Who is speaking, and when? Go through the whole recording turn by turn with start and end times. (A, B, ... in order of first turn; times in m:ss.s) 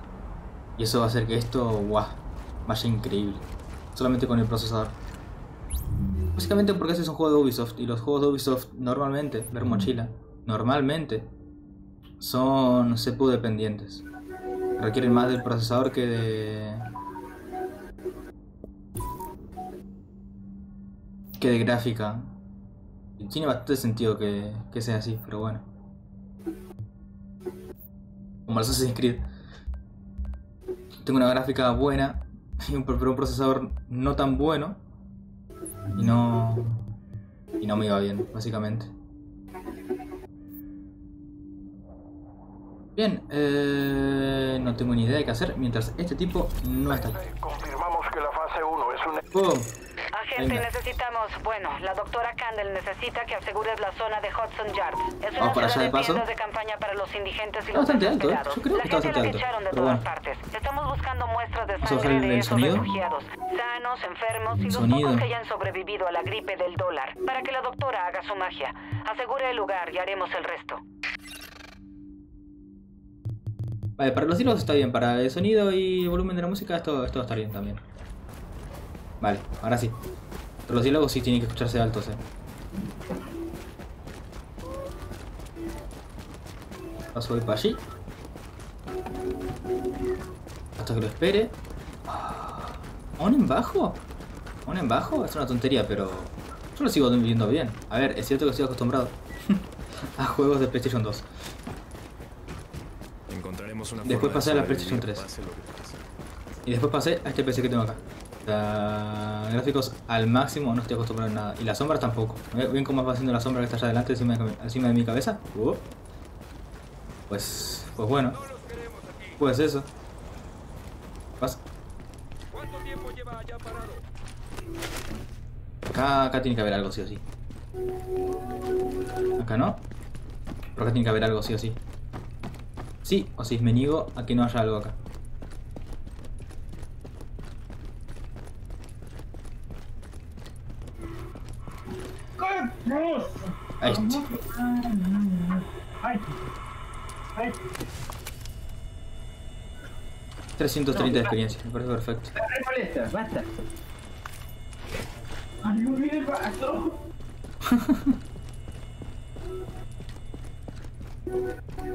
0:00.8-0:05.0 A
0:06.4-0:11.3 A
0:12.2-0:14.1 A
0:14.8-0:16.9 A
0:21.4-0:22.4 A
0:23.2-0:25.7 A
0:28.5-0:29.3 A
0:31.0-0:34.8 A
0:35.9-0:36.9 A
0:37.6-0:38.9 A
0:43.0-0:47.2 A
0:46.9-0:49.2 B
0:49.3-0:49.7 A
0:50.1-1:10.8 C
0:50.4-0:50.7 A
0:55.4-0:56.2 A
0:57.7-1:00.0 A
1:01.8-1:02.9 A
1:04.6-1:05.3 A
1:14.0-1:17.8 A
1:19.2-1:20.0 A
1:20.7-1:22.2 A
1:27.1-1:27.8 A
1:30.8-1:31.6 A
1:32.1-1:34.0 A
1:34.7-1:39.6 A
1:40.2-1:41.3 A
1:43.3-1:46.0 D
1:44.0-1:45.3 A
1:46.7-1:55.9 A
1:57.3-1:58.4 A
1:59.4-1:59.9 A
2:03.5-2:03.9 B
2:05.9-2:07.2 A
2:09.4-2:09.8 A
2:10.8-2:11.8 A
2:13.0-2:15.0 A
2:22.4-2:26.3 E
2:23.8-2:24.2 A
2:30.6-2:32.4 A
2:30.9-2:31.3 E
2:32.4-2:33.5 E
2:35.6-2:37.0 E
2:37.6-2:38.2 A